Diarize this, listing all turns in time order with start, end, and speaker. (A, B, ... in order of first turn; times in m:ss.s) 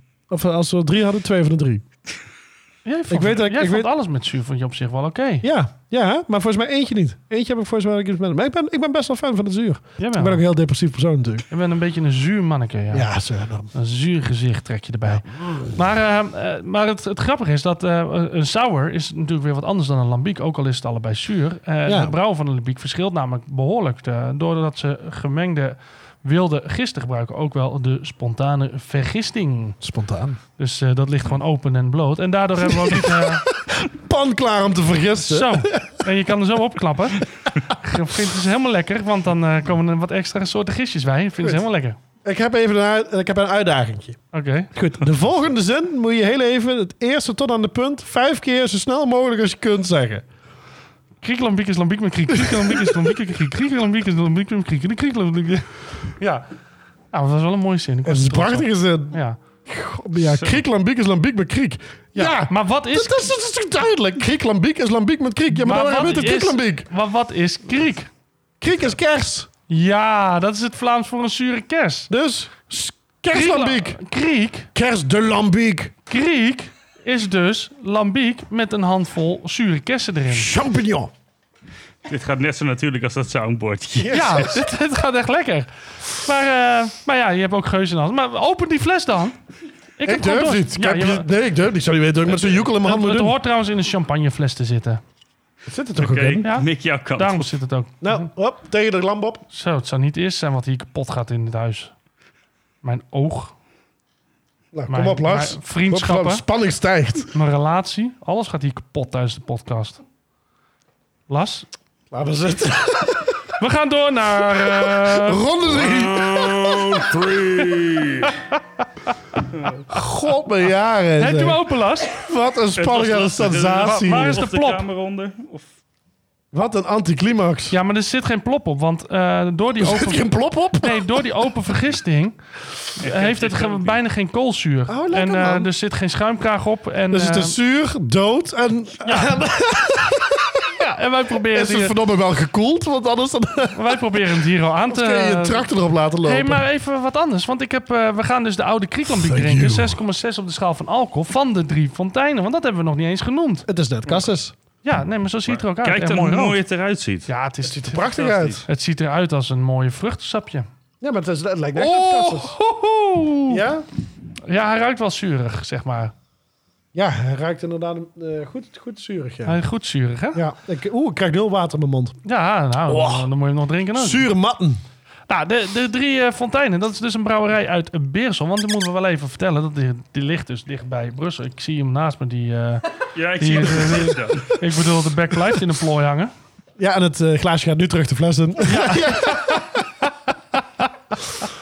0:00.3-0:01.8 A
0:02.8-0:05.5 B
0:03.1-0:03.9 A
0:05.4-0:11.4 A
0:10.0-0:10.4 B
0:11.5-0:13.1 B
0:12.9-0:13.7 A
0:13.7-0:29.8 B
0:21.8-0:22.1 A
0:29.8-0:30.4 A
0:30.6-0:33.5 B
0:32.7-0:36.0 A
0:35.2-0:42.0 B
0:42.2-0:44.2 A
0:44.3-0:44.7 B
0:44.7-0:50.2 A
0:51.2-0:56.4 B
0:52.3-0:53.1 A
0:57.1-0:59.4 B
0:58.0-1:06.9 A
1:00.2-1:00.6 C
1:02.1-1:03.3 B
1:05.6-1:08.1 B
1:08.6-1:09.5 A
1:09.7-1:12.1 B
1:12.1-1:14.0 A
1:13.3-1:14.7 B
1:14.7-1:15.9 A
1:16.1-1:20.5 B
1:20.3-1:21.1 A
1:22.0-1:24.3 C
1:24.0-1:24.5 A
1:24.1-1:29.4 B
1:30.0-1:31.3 B
1:30.0-1:33.4 A
1:32.8-1:35.0 B
1:35.7-1:36.5 A
1:36.0-1:37.5 C
1:36.4-1:38.3 B
1:38.0-1:39.4 A
1:39.5-1:41.9 B
1:42.8-1:43.5 B
1:44.7-1:47.3 A
1:44.9-1:46.4 B
1:47.3-1:50.0 B
1:51.3-1:51.7 B
1:52.1-1:53.4 A
1:53.6-1:55.4 B
1:54.6-1:57.1 A
1:55.7-1:58.3 D
1:58.5-1:59.1 B
1:59.8-2:04.4 A
2:01.2-2:02.1 B
2:02.8-2:05.6 C
2:04.0-2:04.8 B
2:06.5-2:07.8 A
2:07.7-2:10.3 B
2:09.8-2:11.1 A
2:10.8-2:12.4 B
2:12.9-2:17.6 B
2:13.0-2:14.0 C
2:14.9-2:15.7 A
2:17.1-2:20.7 A
2:19.0-2:19.3 B
2:20.7-2:22.0 B
2:21.5-2:24.0 A
2:23.7-2:25.7 B
2:24.9-2:26.6 A
2:26.2-2:33.6 B
2:29.1-2:30.0 A
2:33.6-2:34.5 A
2:34.8-2:36.6 B
2:35.5-2:37.3 C
2:37.3-2:40.7 B
2:37.6-2:38.6 A
2:38.2-2:38.6 C
2:41.0-2:42.6 A
2:41.8-2:43.6 B
2:43.5-2:43.8 A
2:44.4-2:46.1 B
2:46.9-2:49.6 A
2:49.4-2:50.4 B
2:50.3-2:52.2 A
2:52.2-2:54.3 B
2:52.9-2:53.3 A
2:53.9-2:54.8 A
2:55.3-3:06.3 B
3:03.1-3:04.5 C
3:06.8-3:09.8 A
3:08.6-3:09.8 B
3:10.6-3:10.8 B